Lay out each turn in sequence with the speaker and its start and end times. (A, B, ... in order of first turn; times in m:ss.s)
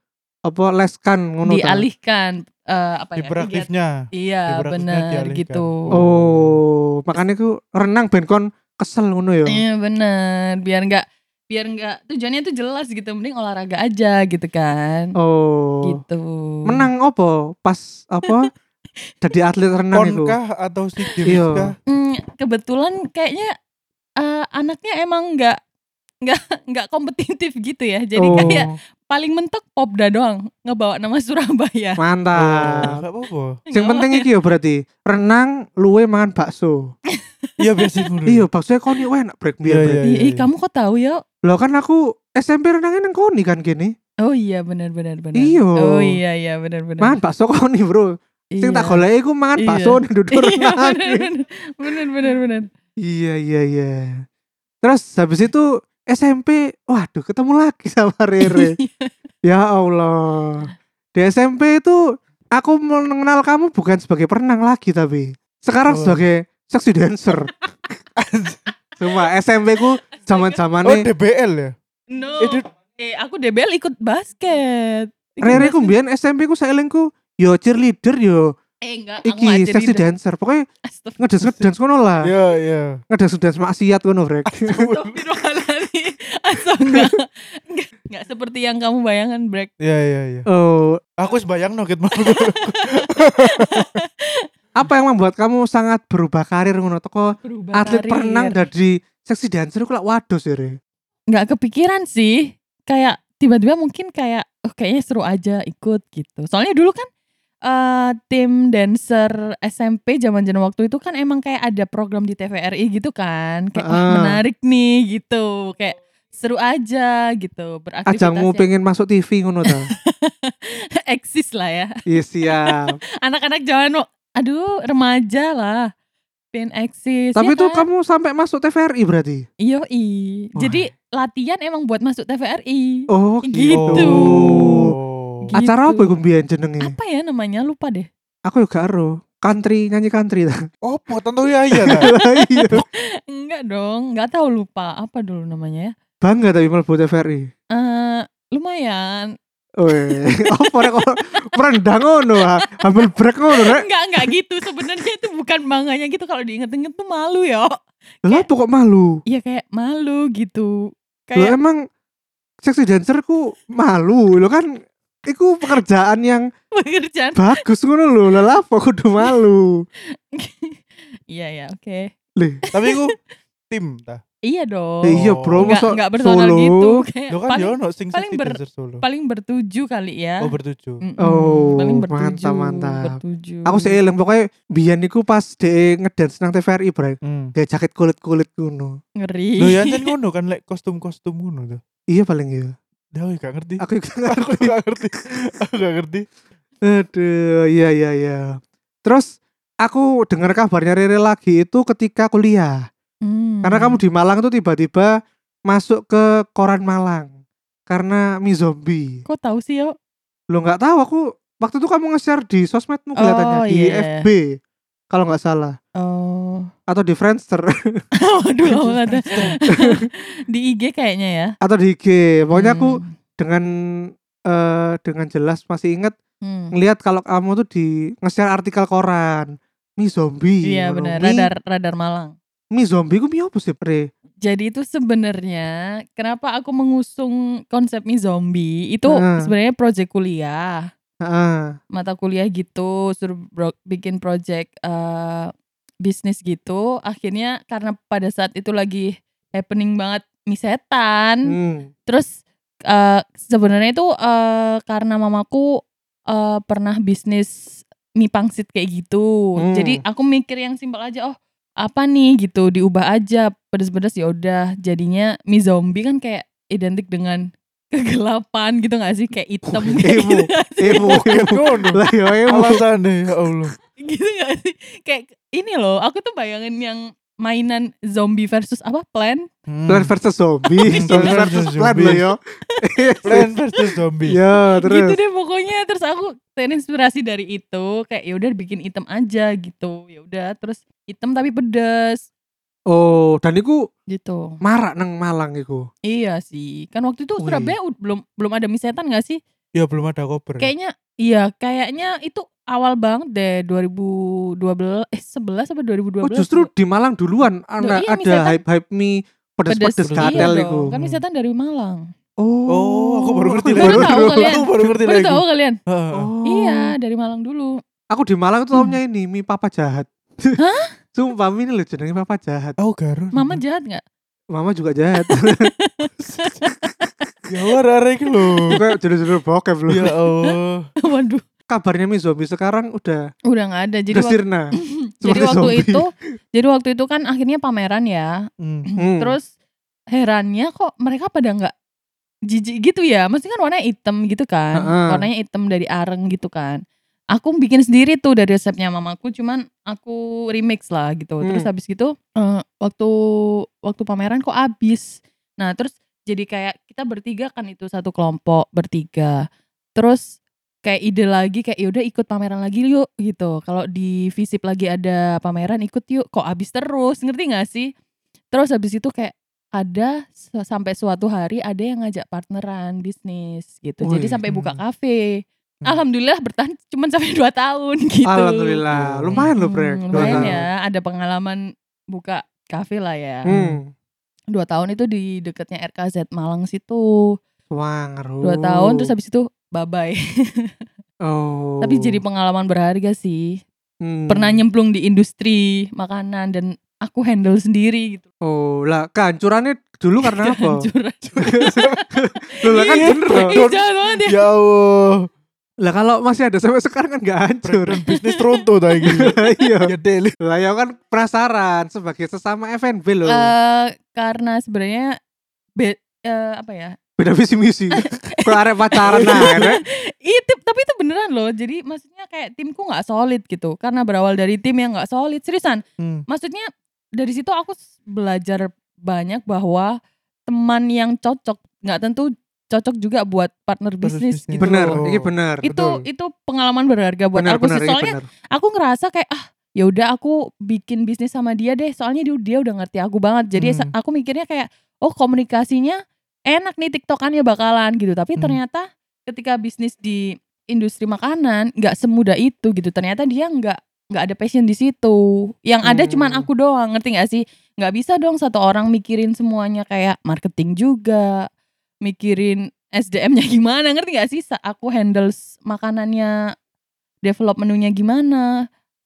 0:00.5-0:01.8 A
0:01.4-0:06.0 B
0:03.2-0:06.6 C
0:05.9-0:09.6 A
0:09.5-0:15.1 B
0:15.2-0:16.0 A
0:15.8-0:16.9 B
0:16.7-0:18.5 A
0:18.2-0:18.5 B
0:19.2-0:20.4 A
0:19.9-0:21.8 C
0:21.2-0:21.7 A
0:21.9-0:23.5 B
0:24.2-0:25.6 B
0:26.2-0:32.0 B
0:28.2-0:28.7 A
0:28.3-0:28.6 C
0:32.0-0:33.0 A
0:32.4-0:33.6 C
0:33.7-0:34.2 B
0:33.7-0:36.9 A
0:37.2-0:37.9 B
0:37.6-0:38.5 C
0:38.2-0:40.0 A
0:39.6-0:40.5 C
0:40.0-0:41.2 B
0:41.4-0:44.0 A
0:44.2-0:47.2 B
0:45.4-0:46.2 A
0:47.0-0:51.3 A
0:48.5-0:49.0 B
0:49.6-0:52.7 B
0:53.0-0:54.2 A
0:54.8-0:58.8 A
0:58.4-0:59.1 B
0:59.4-1:02.0 A
1:02.5-1:07.5 A
1:05.9-1:06.2 C
1:08.2-1:08.7 C
1:09.0-1:11.1 A
1:10.2-1:10.6 B
1:10.8-1:11.8 C
1:12.1-1:15.9 B
1:12.4-1:12.6 C
1:15.4-1:18.5 A
1:18.8-1:20.1 B
1:19.2-1:20.6 A
1:20.9-1:21.3 B
1:21.2-1:22.3 A
1:22.2-1:23.0 C
1:23.1-1:24.9 A
1:24.5-1:25.2 C
1:24.7-1:29.7 B
1:29.8-1:30.5 C
1:30.5-1:31.0 A
1:31.2-1:33.9 C
1:32.2-1:34.5 B
1:34.8-1:40.8 A
1:37.4-1:38.6 B
1:41.3-1:47.1 B
1:47.7-1:58.7 B
1:53.8-1:54.4 A
1:58.1-1:59.9 A
1:59.7-2:01.9 B
2:02.1-2:02.9 A
2:02.4-2:05.9 B
2:06.5-2:07.8 B
2:07.4-2:09.5 A
2:09.6-2:14.8 B
2:10.6-2:10.8 A
2:13.1-2:14.9 A
2:13.7-2:15.5 C
2:15.5-2:16.2 B
2:15.6-2:17.0 A
2:16.8-2:18.1 B
2:18.4-2:20.6 A
2:20.8-2:22.1 C
2:21.8-2:22.8 A
2:22.0-2:25.9 B
2:26.2-2:27.5 A
2:27.7-2:29.3 B
2:29.8-2:33.8 A
2:29.9-2:31.4 B
2:32.4-2:38.5 B
2:38.2-2:39.2 A
2:39.2-2:41.6 B
2:41.4-2:41.8 A
2:42.6-2:44.7 A
2:45.3-2:46.5 A
2:46.8-2:47.6 B
2:47.4-2:49.7 A
2:50.3-2:52.1 B
2:52.4-2:52.6 A
2:52.7-2:53.1 C
2:52.8-2:53.1 B
2:53.7-2:54.2 C
2:54.5-3:00.5 B
2:55.1-2:57.0 A
2:55.1-2:55.7 C
2:57.3-2:59.0 C
3:00.4-3:01.0 C
3:01.0-3:04.0 B
3:01.2-3:09.0 A
3:07.2-3:07.5 C
3:09.2-3:10.1 B
3:09.6-3:11.8 C
3:12.1-3:12.8 A
3:13.1-3:16.2 C
3:13.8-3:14.7 A
3:16.8-3:19.3 A
3:19.8-3:22.8 A
3:23.2-3:24.0 B
3:23.6-3:25.1 A
3:25.7-3:27.3 A
3:27.9-3:29.2 A
3:29.2-3:30.0 B
3:30.5-3:34.6 A
3:33.2-3:34.3 B
3:35.1-3:35.8 A
3:36.0-3:36.7 B
3:36.9-3:38.0 A
3:38.2-3:41.6 B
3:38.6-3:39.6 C
3:39.7-3:40.0 A
3:41.6-3:46.2 A
3:42.5-3:43.1 B
3:46.4-3:46.7 B
3:46.7-3:51.5 A
3:50.6-3:52.4 B
3:52.7-3:54.1 A
3:54.4-4:00.9 B
3:59.1-3:59.5 A
4:01.2-4:01.8 A
4:01.9-4:05.5 B
4:06.0-4:11.5 B
4:11.5-4:11.9 A
4:12.9-4:15.8 B
4:16.3-4:17.5 B
4:18.2-4:31.5 B
4:19.6-4:20.0 A
4:29.7-4:32.8 A
4:31.0-4:33.7 C
4:34.0-4:39.5 B
4:39.7-4:40.1 C
4:39.9-4:43.5 A
4:40.7-4:42.2 B
4:40.9-4:42.2 C
4:42.7-4:43.4 B
4:43.2-4:44.4 C
4:44.2-4:45.2 A
4:44.7-4:52.3 B
4:52.9-4:53.8 A
4:54.1-4:54.6 B
4:54.6-4:55.9 A
4:56.1-4:59.4 B
4:57.4-4:57.8 A
4:59.8-5:00.7 C
5:00.6-5:06.7 B
5:06.2-5:10.9 A
5:07.8-5:08.6 B
5:09.7-5:12.1 B
5:10.1-5:11.2 C
5:12.4-5:14.5 A
5:12.7-5:16.3 C
5:13.8-5:15.8 B
5:16.1-5:16.9 A
5:16.5-5:17.8 B
5:18.1-5:20.6 A
5:20.6-5:20.9 B
5:21.1-5:22.8 A
5:22.8-5:23.6 C
5:23.3-5:24.0 B
5:24.5-5:25.7 A
5:25.2-5:27.1 B
5:27.5-5:28.7 C
5:28.5-5:28.8 B
5:28.7-5:30.1 A
5:29.9-5:30.9 C
5:31.0-5:31.4 B
5:31.7-5:33.2 A
5:33.5-5:38.4 B
5:34.1-5:34.7 A
5:35.2-5:36.0 A
5:38.6-5:38.9 C
5:38.9-5:39.5 B
5:39.0-5:39.4 A
5:40.1-5:41.7 B
5:42.5-5:46.8 B
5:44.8-5:45.3 A
5:47.3-5:59.4 B
5:51.4-5:51.7 A
6:00.0-6:07.9 B
6:08.5-6:18.8 B
6:14.0-6:14.4 A
6:14.5-6:14.8 C
6:18.2-6:20.6 A
6:18.9-6:19.5 C
6:19.4-6:21.6 B
6:20.1-6:20.6 C
6:22.1-6:23.5 B
6:23.5-6:23.8 C
6:23.5-6:23.9 A
6:24.5-6:27.3 B
6:27.7-6:29.1 A
6:28.4-6:30.7 B
6:31.2-6:32.2 A
6:31.8-6:33.6 B
6:34.0-6:34.6 A
6:34.3-6:38.2 B
6:38.4-6:40.9 A
6:40.2-6:44.4 B
6:41.4-6:43.6 A
6:41.5-6:42.0 C
6:42.9-6:45.3 C
6:45.8-6:48.0 A
6:47.6-6:50.4 C
6:48.1-6:49.4 B
6:49.1-6:53.5 A
6:53.3-6:55.2 B
6:55.8-6:57.0 B
6:57.2-6:59.8 A
6:58.0-7:10.0 B
7:06.0-7:06.2 C
7:10.5-7:15.0 B
7:14.0-7:16.0 C
7:14.6-7:15.7 A
7:15.6-7:41.4 B
7:17.4-7:18.2 A
7:23.6-7:23.9 C
7:35.9-7:36.5 A
7:42.0-7:46.4 B
7:47.2-7:48.5 B